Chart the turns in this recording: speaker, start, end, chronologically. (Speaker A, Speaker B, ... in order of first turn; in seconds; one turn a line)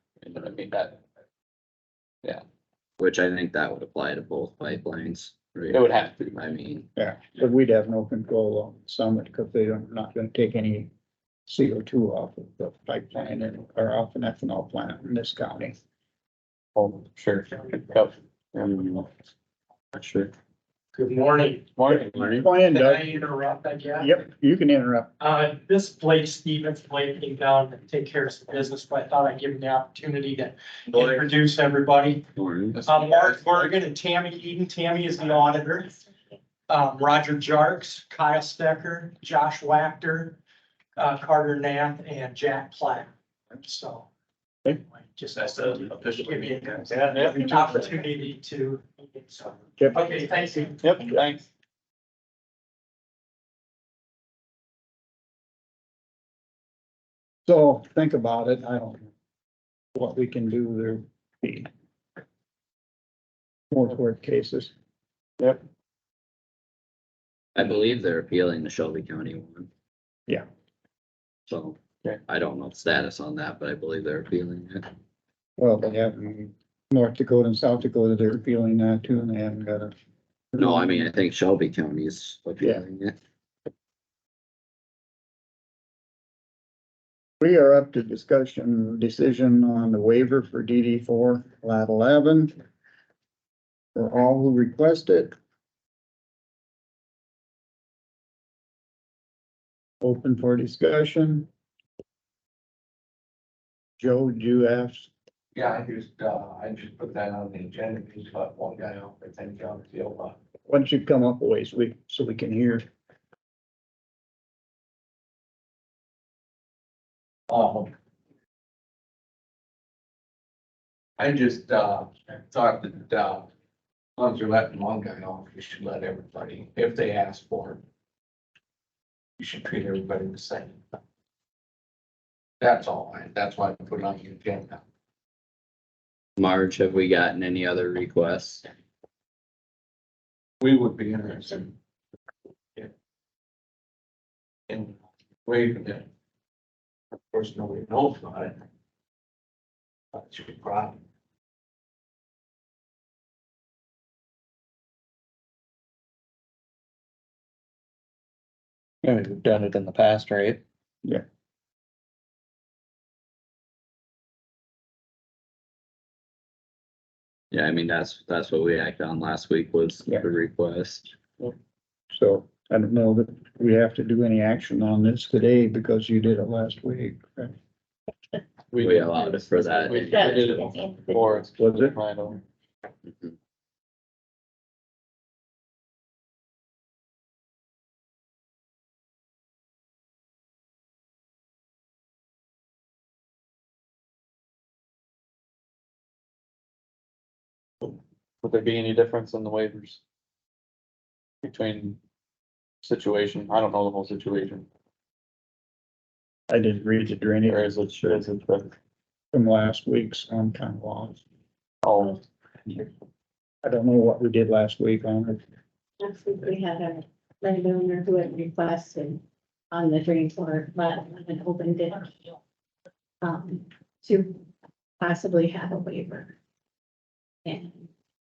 Speaker A: 0.2-1.0
Speaker B: 3.0-6.9
Speaker A: 5.7-6.3
Speaker C: 7.0-10.9
Speaker C: 11.5-15.8
Speaker A: 16.7-19.1
Speaker A: 19.9-20.3
Speaker D: 20.9-21.7
Speaker A: 21.8-22.5
Speaker C: 21.9-23.2
Speaker D: 22.7-24.1
Speaker C: 24.0-25.1
Speaker D: 25.2-32.2
Speaker E: 30.9-31.2
Speaker B: 32.4-32.8
Speaker E: 32.8-33.4
Speaker D: 32.8-36.0
Speaker D: 36.7-40.4
Speaker D: 41.0-44.1
Speaker D: 45.1-50.8
Speaker E: 45.8-47.1
Speaker A: 47.1-47.7
Speaker C: 49.8-50.5
Speaker A: 50.8-51.5
Speaker C: 57.5-59.1
Speaker C: 59.9-61.7
Speaker C: 63.7-64.7
Speaker B: 67.5-69.7
Speaker B: 71.5-74.9
Speaker C: 75.6-79.9
Speaker C: 80.5-81.1
Speaker B: 80.6-83.1
Speaker C: 87.4-92.5
Speaker C: 93.9-95.3
Speaker C: 100.0-101.5
Speaker C: 104.0-105.1
Speaker E: 105.5-110.3
Speaker C: 110.7-112.8
Speaker E: 117.5-117.9
Speaker E: 121.2-121.9
Speaker F: 121.4-123.5
Speaker E: 124.2-127.6
Speaker F: 124.2-125.2
Speaker F: 125.8-127.8
Speaker E: 129.4-130.7
Speaker E: 132.6-134.8
Speaker F: 132.6-134.5
Speaker B: 136.4-138.7
Speaker E: 140.6-141.6
Speaker E: 145.4-146.0
Speaker E: 147.3-148.6
Speaker E: 150.1-151.0
Speaker A: 159.0-160.6
Speaker B: 167.5-171.1
Speaker C: 172.1-177.5
Speaker A: 178.7-182.4
Speaker B: 178.8-180.8
Speaker C: 181.6-182.0
Speaker A: 198.4-200.0
Speaker A: 201.4-202.0
Speaker A: 202.8-204.7
Speaker C: 206.5-208.2
Speaker A: 207.4-208.7
Speaker C: 209.3-211.2
Speaker A: 211.8-212.2
Speaker C: 213.6-215.4
Speaker F: 216.0-222.2
Speaker F: 223.2-224.4
Speaker F: 225.0-226.3
Speaker F: 227.4-227.9